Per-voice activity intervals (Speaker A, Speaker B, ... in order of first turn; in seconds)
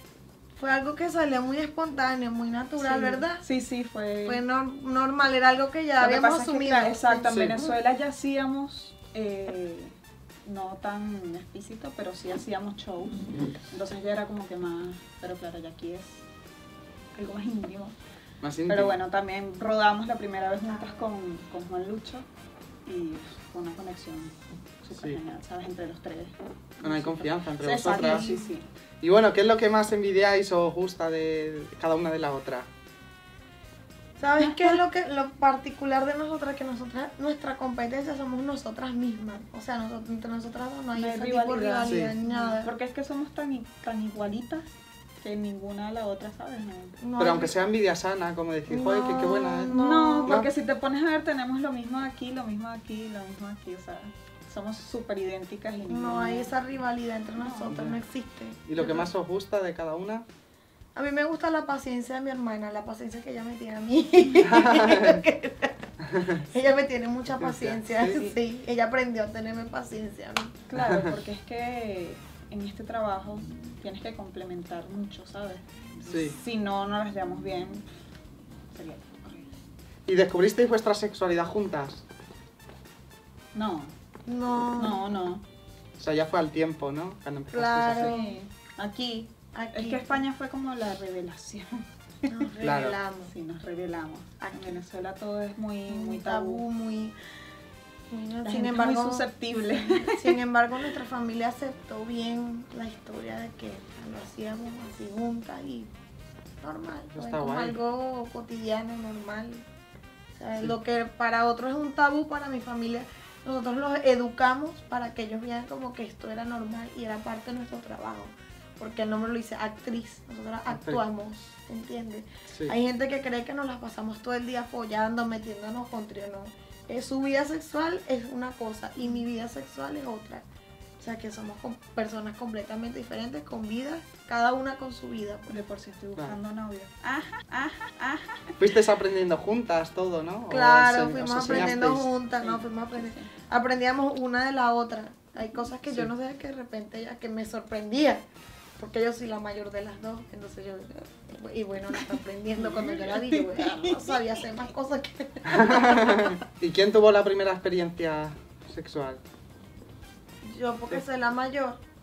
Speaker A: 0.6-3.4, 4.2-7.6, 20.7-21.1, 27.9-28.5, 34.2-42.7, 47.0-47.7, 48.7-50.4, 55.9-59.1, 60.9-70.6, 84.2-85.0, 87.5-88.4, 89.5-90.2, 92.3-93.3, 94.4-94.8, 95.9-97.2, 98.1-105.9, 106.6-109.6, 110.4-130.4, 131.0-135.5, 140.5-148.2, 148.8-156.4, 160.4-161.8
Speaker B: 2.8-4.4, 6.0-16.2, 17.1-17.9, 18.7-22.2, 22.9-28.7, 34.4-34.8, 40.9-47.0, 49.7-56.5, 57.4-57.8, 70.7-77.8, 78.7-79.5, 83.5-83.9, 84.8-85.4, 87.9-92.5, 93.3-96.6, 98.4-100.4, 135.5-138.6, 141.4-141.7, 142.4-143.3, 152.6-154.2
Speaker C: 7.3-7.6, 18.4-19.0, 24.9-25.2, 26.8-28.3, 29.0-32.7, 41.9-42.1, 47.2-50.5, 57.7-58.0, 58.6-60.2, 64.5-65.2, 66.1-66.4, 67.4-68.3, 76.1-76.3, 80.1-82.0, 86.0-88.1, 92.6-93.0, 107.1-107.8, 120.7-121.0, 122.5-122.8, 138.6-142.1, 155.5-159.2